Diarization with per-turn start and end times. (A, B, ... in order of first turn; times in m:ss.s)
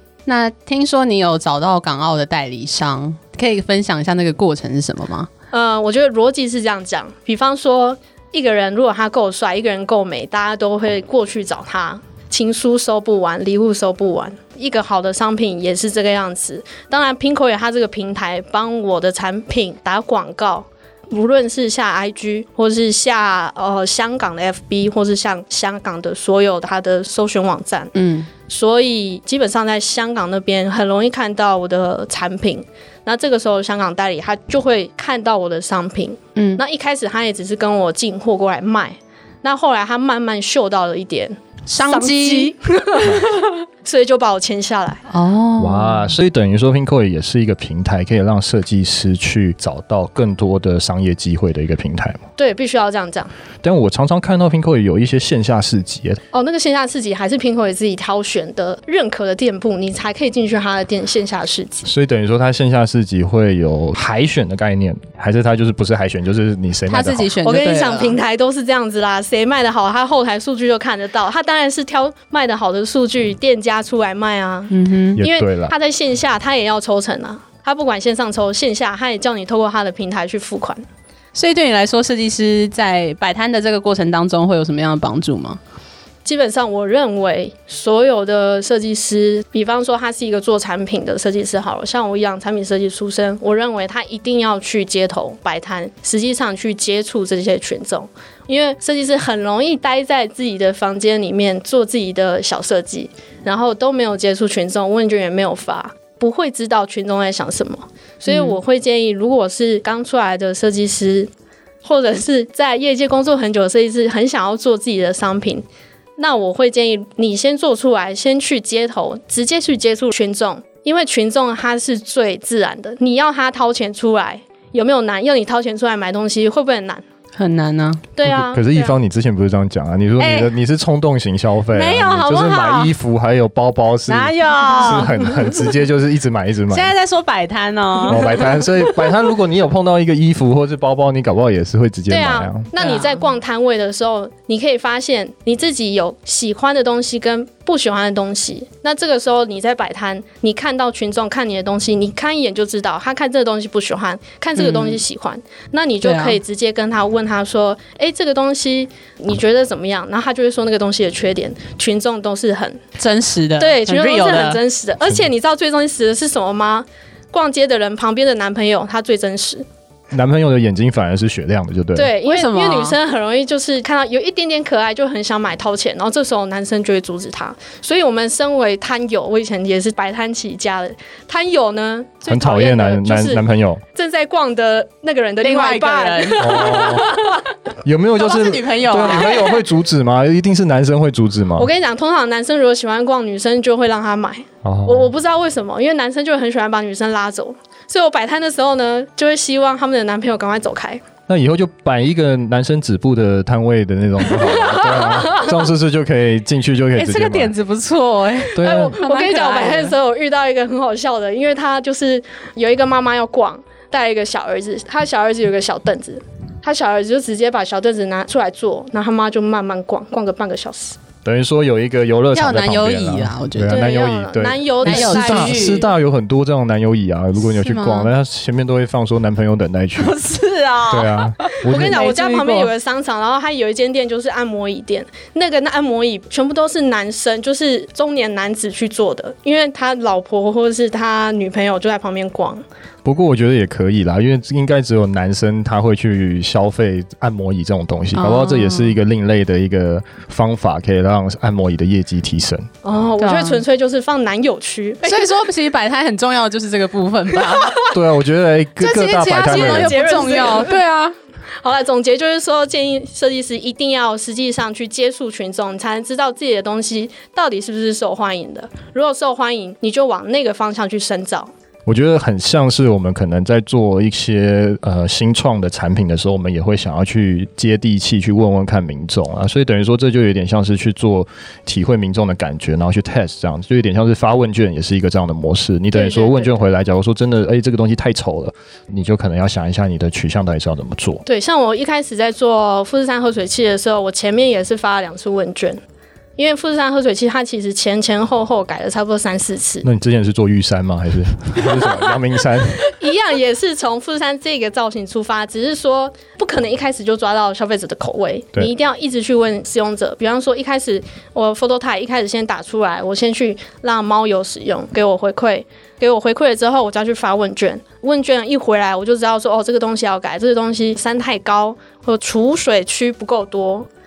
0:00.2-0:05.3 A
0:05.5-0:27.9 B
0:27.9-0:28.3 A
0:28.4-0:45.0 B
0:36.4-0:36.6 A
0:41.7-0:42.5 A
0:45.1-0:46.1 A
0:45.6-0:52.2 C
0:52.4-0:53.3 B
0:53.6-0:56.2 C
0:56.3-1:01.9 B
1:01.8-1:07.3 C
1:06.9-1:08.2 A
1:07.4-1:20.8 B
1:14.7-1:15.2 A
1:15.2-1:15.7 C
1:21.3-1:25.6 A
1:26.2-1:51.3 B
1:48.3-1:48.5 A
1:51.8-1:55.6 B
1:56.2-2:07.0 B
2:07.4-2:08.0 A
2:08.1-2:09.0 B
2:08.2-2:16.9 C
2:10.2-2:10.5 A
2:11.7-2:12.9 A
2:14.1-2:15.7 A
2:16.7-2:18.7 A
2:18.0-2:22.7 C
2:22.1-2:42.8 B
2:22.8-2:23.2 A
2:34.6-2:35.0 A
2:36.0-2:36.4 A
2:43.0-2:44.6 A
2:43.6-2:49.6 B
2:50.1-2:52.1 C
2:51.9-3:07.5 B
2:52.2-2:53.0 A
3:02.3-3:03.8 C
3:05.4-3:06.8 A
3:06.4-3:07.1 C
3:07.8-3:11.7 C
3:08.2-3:09.6 A
3:09.0-3:09.5 B
3:11.6-3:21.0 B
3:14.6-3:15.1 C
3:21.3-3:27.5 C
3:24.3-3:25.6 B
3:26.9-3:30.0 A
3:28.5-3:29.0 C
3:28.6-3:41.0 B
3:41.2-3:50.2 C
3:42.3-3:43.8 A
3:43.7-3:45.7 B
3:44.8-3:45.9 A
3:47.4-3:48.1 A
3:50.0-3:52.7 A
3:50.9-3:52.0 C
3:51.6-4:02.6 B
4:03.0-4:12.7 C
4:08.1-4:09.0 A
4:12.8-4:15.4 B
4:13.2-4:13.6 A
4:15.0-4:17.8 A
4:17.4-4:17.9 B
4:17.8-4:20.1 C
4:18.8-4:21.1 A
4:19.4-4:20.8 B
4:21.6-4:31.5 B
4:31.8-4:51.2 C
4:45.9-4:46.6 B
4:51.2-4:55.8 B
4:56.4-4:59.8 B
4:59.8-5:02.8 C
5:01.6-5:02.0 B
5:02.8-5:23.9 B